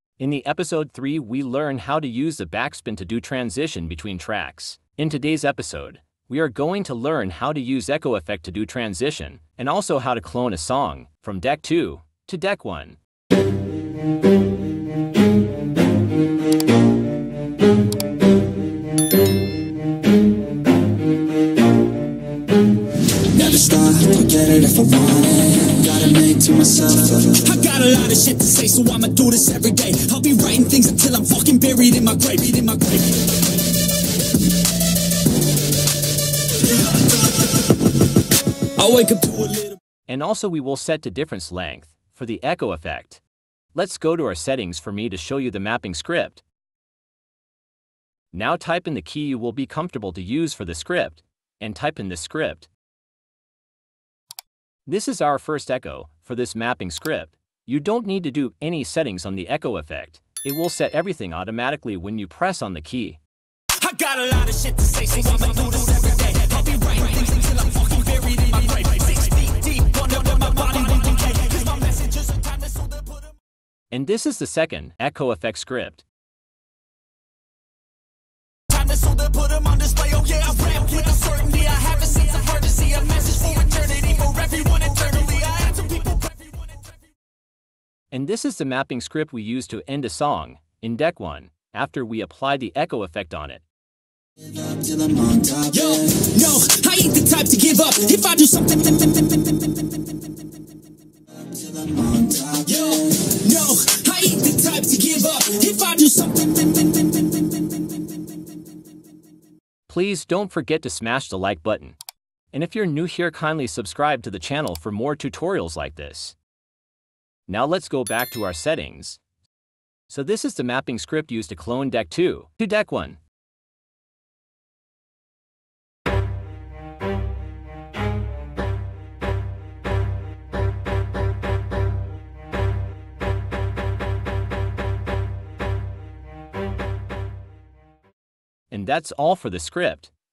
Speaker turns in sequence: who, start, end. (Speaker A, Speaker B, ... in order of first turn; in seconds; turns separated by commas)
Speaker A: 0.2-13.0, Speaker B: 23.3-27.4, Speaker C: 27.4-33.2, Speaker C: 38.8-39.8, Speaker A: 40.1-43.2, Speaker A: 43.8-46.4, Speaker A: 48.3-52.7, Speaker A: 54.9-63.2, Speaker C: 63.8-73.2, Speaker A: 73.9-76.1, Speaker C: 78.7-86.5, Speaker A: 88.1-93.6, Speaker B: 94.8-96.2, Speaker C: 95.7-98.9, Speaker B: 101.9-102.6, Speaker C: 102.7-106.6, Speaker A: 109.9-112.0, Speaker A: 112.5-116.4, Speaker A: 117.5-119.2, Speaker A: 120.1-123.2, Speaker A: 138.7-140.1